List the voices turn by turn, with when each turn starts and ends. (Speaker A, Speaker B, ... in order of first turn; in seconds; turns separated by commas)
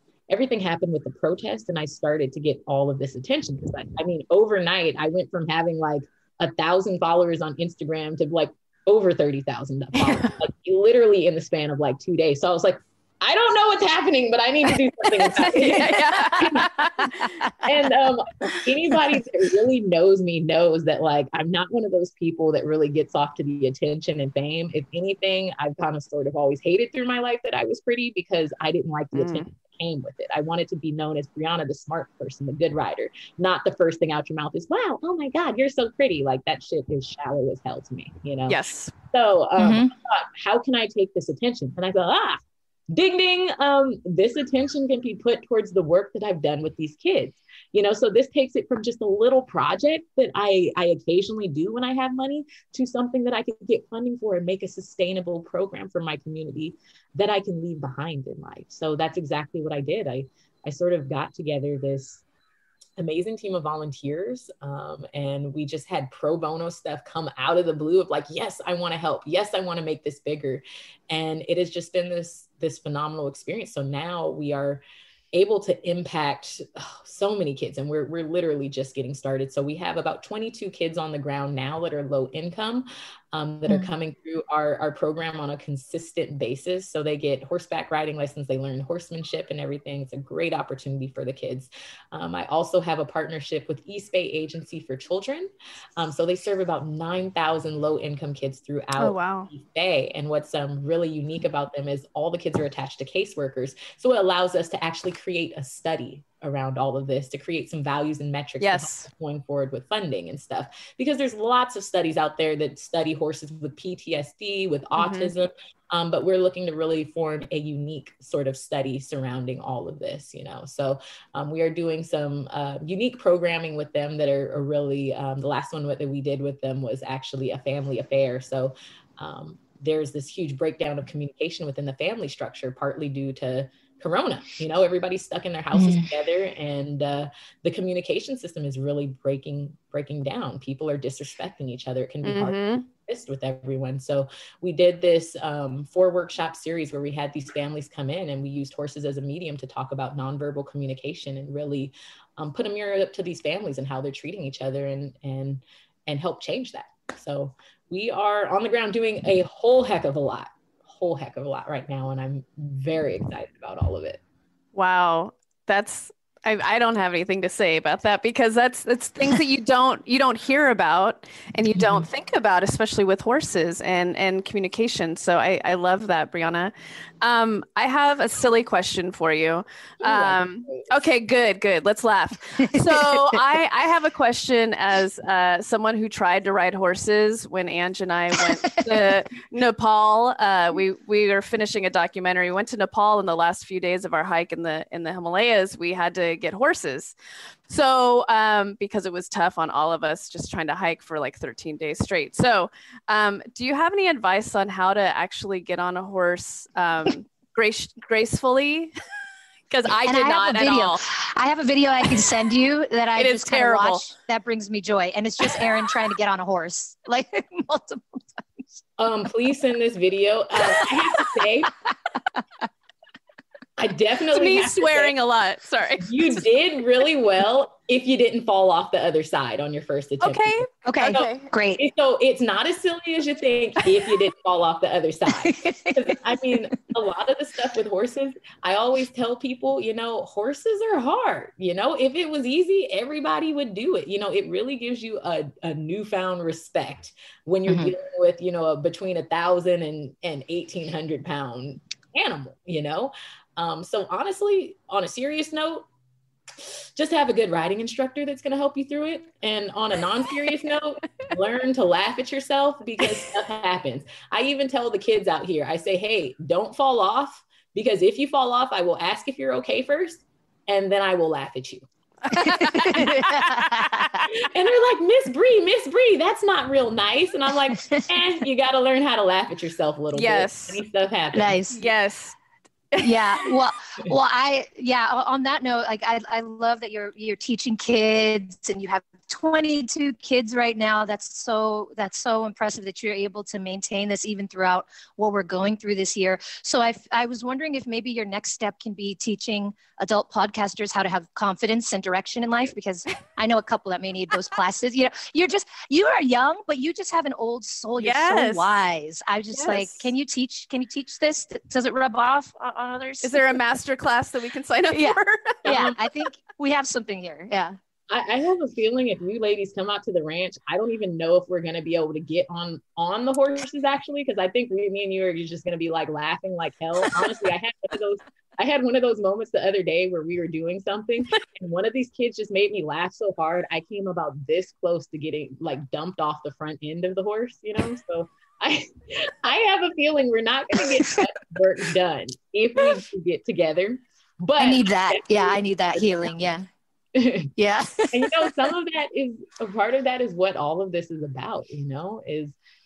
Speaker A: 0.3-38.6, Speaker B: 10.0-10.4, Speaker B: 15.2-17.3, Speaker B: 29.1-29.5, Speaker B: 38.5-38.9, Speaker A: 39.1-62.2, Speaker C: 39.6-39.9, Speaker A: 63.0-74.8, Speaker A: 75.3-164.2, Speaker B: 99.0-99.5, Speaker B: 108.6-109.1, Speaker B: 115.0-115.3, Speaker B: 142.2-142.9, Speaker B: 164.7-197.1, Speaker A: 180.0-180.9, Speaker B: 197.7-208.9, Speaker B: 209.7-211.0, Speaker C: 210.1-218.8, Speaker B: 213.2-214.1, Speaker A: 219.0-221.7, Speaker C: 220.7-221.3, Speaker A: 223.8-225.1, Speaker B: 224.3-226.3, Speaker A: 226.0-255.9, Speaker B: 230.2-231.5, Speaker C: 230.8-231.8, Speaker C: 235.4-236.1, Speaker A: 256.6-273.1, Speaker B: 272.3-273.7, Speaker C: 272.3-274.3, Speaker A: 274.2-281.6, Speaker B: 280.1-280.8, Speaker C: 281.3-281.8, Speaker B: 281.7-282.4, Speaker B: 282.9-283.6, Speaker C: 283.0-313.6, Speaker B: 308.0-308.8, Speaker B: 309.5-310.1, Speaker B: 313.2-316.1, Speaker C: 314.9-317.8, Speaker A: 315.6-315.9, Speaker A: 318.1-345.6, Speaker C: 344.6-346.7, Speaker A: 347.1-347.5, Speaker C: 347.6-348.5, Speaker A: 348.1-352.6